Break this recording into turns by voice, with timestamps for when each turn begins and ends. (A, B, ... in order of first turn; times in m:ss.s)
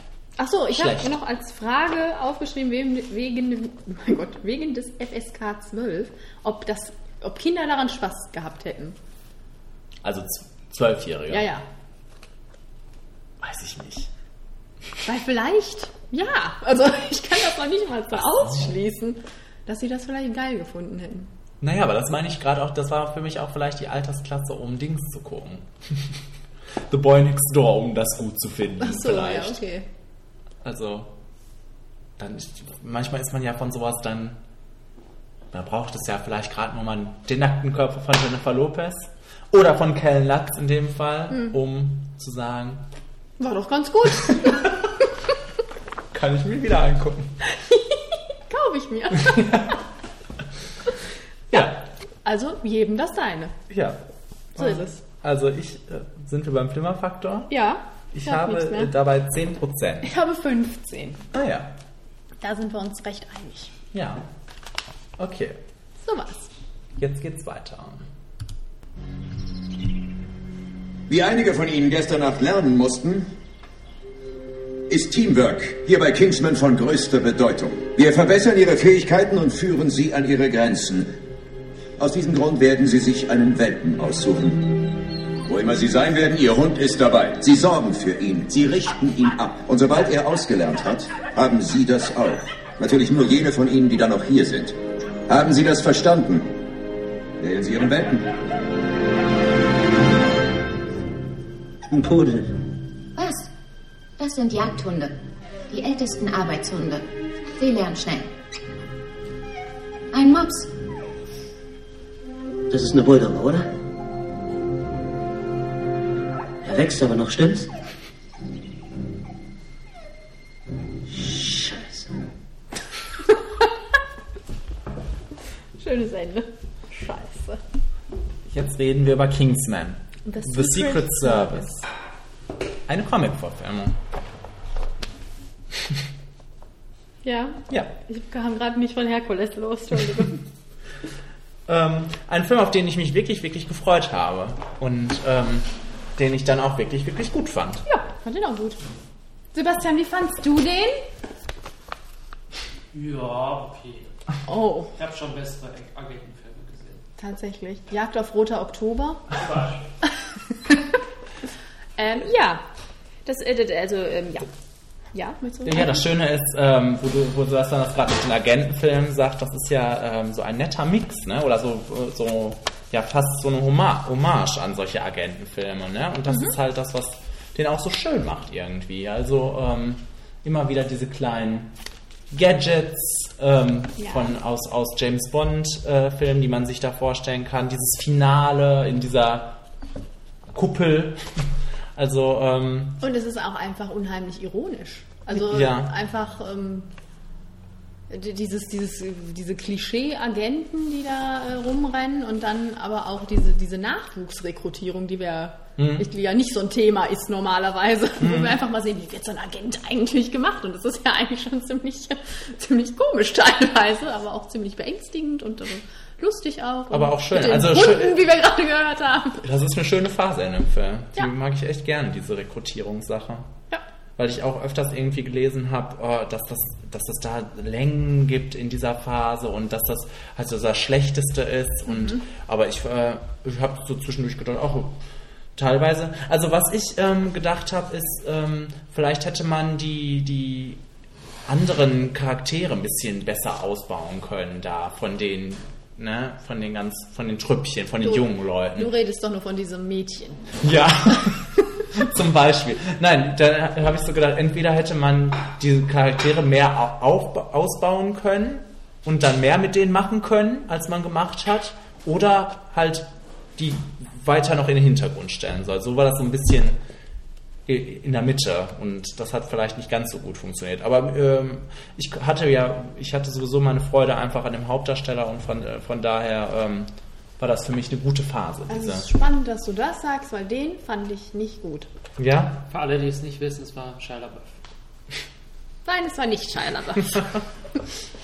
0:00.4-0:09.0 A
0:00.7-0:01.1 B
0:10.0-0:11.5 B
0:11.3-0:11.6 A
0:13.4-0:14.1 B
0:15.0-0:21.3 A
0:18.1-0:18.7 B
0:21.6-0:26.1 B
0:26.9-0:29.6 B
0:28.8-0:29.9 A
0:30.6-0:31.1 B
0:32.2-0:34.4 B
0:35.5-0:42.8 B
0:43.4-0:44.7 A
0:46.1-0:47.3 B
0:47.6-0:49.8 A
0:49.2-0:49.7 B
0:51.5-0:51.8 B
0:51.5-0:53.6 A
0:53.7-0:54.0 B
0:54.6-0:57.5 B
0:54.6-0:55.0 A
0:57.5-0:58.9 A
0:58.1-1:00.1 B
1:00.0-1:01.2 A
1:01.3-1:01.8 B
1:02.4-1:03.7 A
1:03.9-1:04.3 B
1:05.2-1:05.6 B
1:06.0-1:06.5 A
1:07.0-1:08.1 B
1:11.1-1:13.3 C
1:14.9-1:21.1 C
1:22.0-1:34.7 C
1:35.3-1:36.5 C
1:37.4-1:38.3 C
1:41.9-1:42.6 D
1:43.2-1:43.5 E
1:44.2-1:45.2 E
1:45.7-1:47.0 E
1:47.6-1:48.3 E
1:50.1-1:50.7 E
1:52.7-1:53.7 D
1:56.6-1:57.7 D
2:01.2-2:01.8 D
2:05.8-2:07.6 A
2:08.5-2:11.7 B
2:10.3-2:11.8 A
2:12.9-2:14.0 B
2:17.2-2:20.4 A
2:21.7-2:27.8 B
2:27.9-2:28.8 A
2:29.5-2:31.0 A
2:32.9-2:34.1 F
2:34.4-2:34.9 A
2:35.0-2:37.0 F
2:37.2-2:39.3 A
2:39.3-2:39.8 F
2:42.0-2:42.6 A
2:43.3-2:44.5 A
2:45.1-2:46.0 A
2:45.6-3:01.7 B
2:56.3-2:56.6 A
3:02.3-3:09.6 B
3:04.0-3:04.3 A
3:10.5-3:11.2 B
3:11.9-3:13.0 B
3:13.0-3:16.9 A
3:15.3-3:15.9 B
3:18.1-3:39.4 A
3:25.8-3:26.1 B
3:28.2-3:28.6 B
3:36.9-3:38.2 B
3:39.4-3:43.5 B
3:44.2-3:55.0 B
3:51.9-3:52.2 A
3:55.6-4:00.8 B
4:01.4-4:08.9 B
4:08.0-4:10.5 A
4:10.6-4:26.8 B
4:27.6-4:39.1 B
4:38.7-4:41.9 A
4:42.2-4:42.6 B
4:42.7-4:44.6 F
4:45.9-4:47.4 A